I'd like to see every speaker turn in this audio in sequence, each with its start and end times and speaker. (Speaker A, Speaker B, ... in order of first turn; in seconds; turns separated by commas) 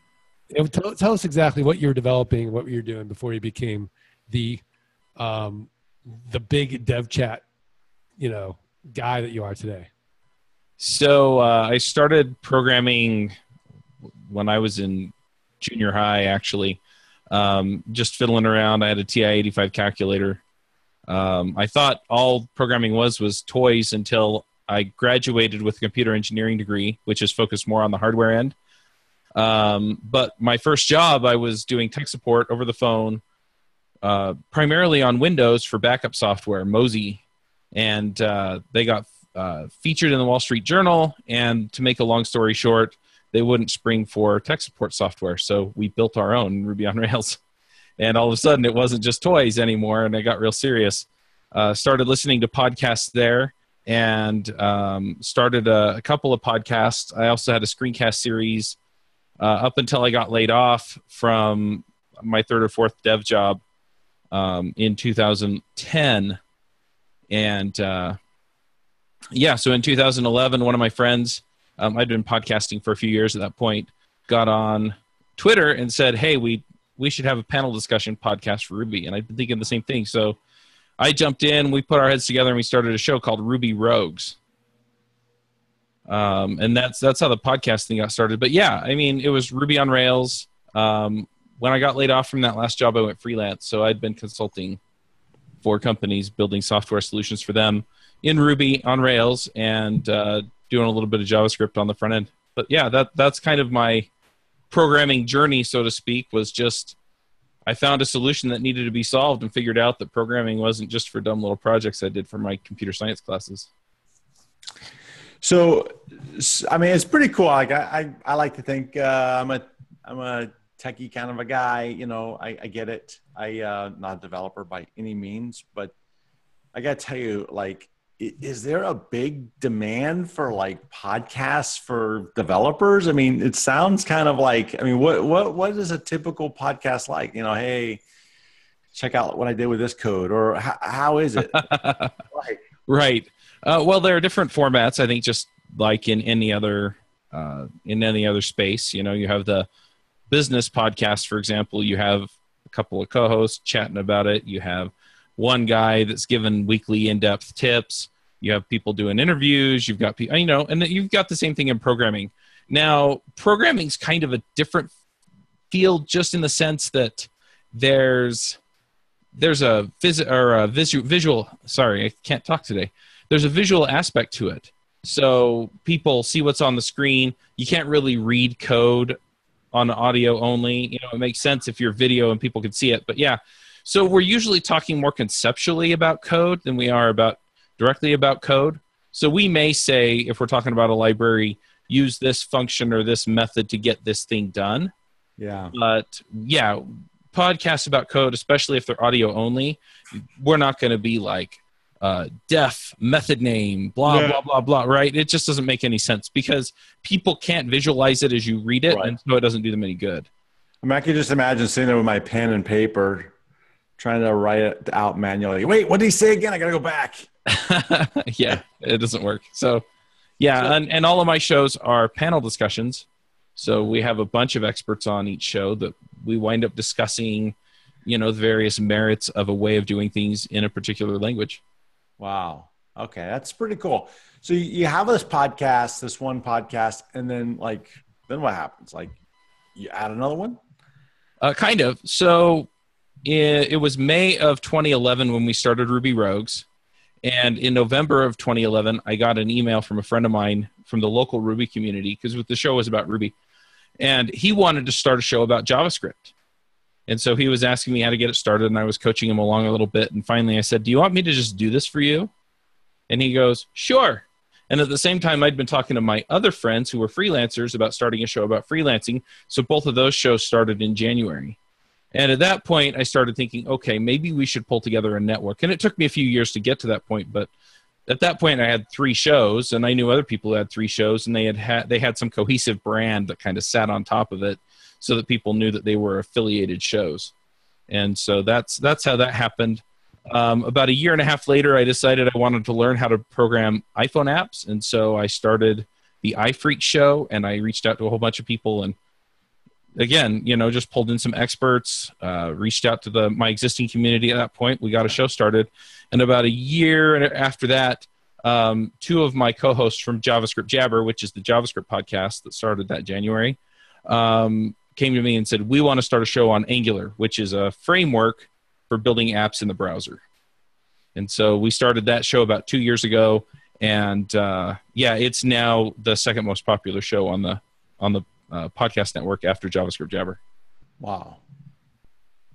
Speaker A: 0.5-4.6, Speaker A: 5.2-7.4, Speaker A: 8.2-9.9, Speaker B: 10.8-13.3, Speaker B: 14.3-20.4, Speaker B: 21.1-28.6, Speaker B: 29.4-33.2, Speaker B: 34.0-37.2, Speaker B: 37.7-47.4, Speaker B: 48.0-58.8, Speaker B: 59.4-63.6, Speaker B: 64.3-66.4, Speaker B: 67.3-68.2, Speaker B: 69.3-80.4, Speaker B: 81.0-84.4, Speaker B: 86.1-94.8, Speaker B: 95.6-104.1, Speaker B: 104.7-107.0, Speaker B: 107.7-113.7, Speaker C: 115.4-125.9, Speaker C: 126.7-138.0, Speaker C: 138.9-141.7, Speaker B: 141.5-142.1, Speaker C: 142.3-142.6, Speaker B: 142.9-149.7, Speaker B: 150.3-164.9, Speaker B: 165.7-168.6, Speaker B: 169.4-179.2, Speaker B: 179.7-194.9, Speaker C: 195.4-195.8, Speaker B: 195.7-199.8, Speaker B: 200.4-210.3, Speaker C: 204.1-204.4, Speaker C: 208.9-209.2, Speaker C: 210.8-213.3, Speaker C: 214.0-217.3, Speaker B: 217.5-219.8, Speaker B: 220.4-223.1, Speaker B: 223.6-231.6, Speaker C: 232.2-239.2, Speaker C: 239.8-240.6, Speaker B: 241.4-242.7, Speaker B: 243.2-246.7, Speaker B: 247.2-253.3, Speaker B: 254.0-256.3, Speaker B: 257.1-262.3, Speaker B: 263.1-271.6, Speaker B: 272.1-277.5, Speaker B: 278.1-287.3, Speaker B: 287.9-299.0, Speaker B: 300.0-320.2, Speaker B: 321.1-330.4, Speaker C: 331.0-331.4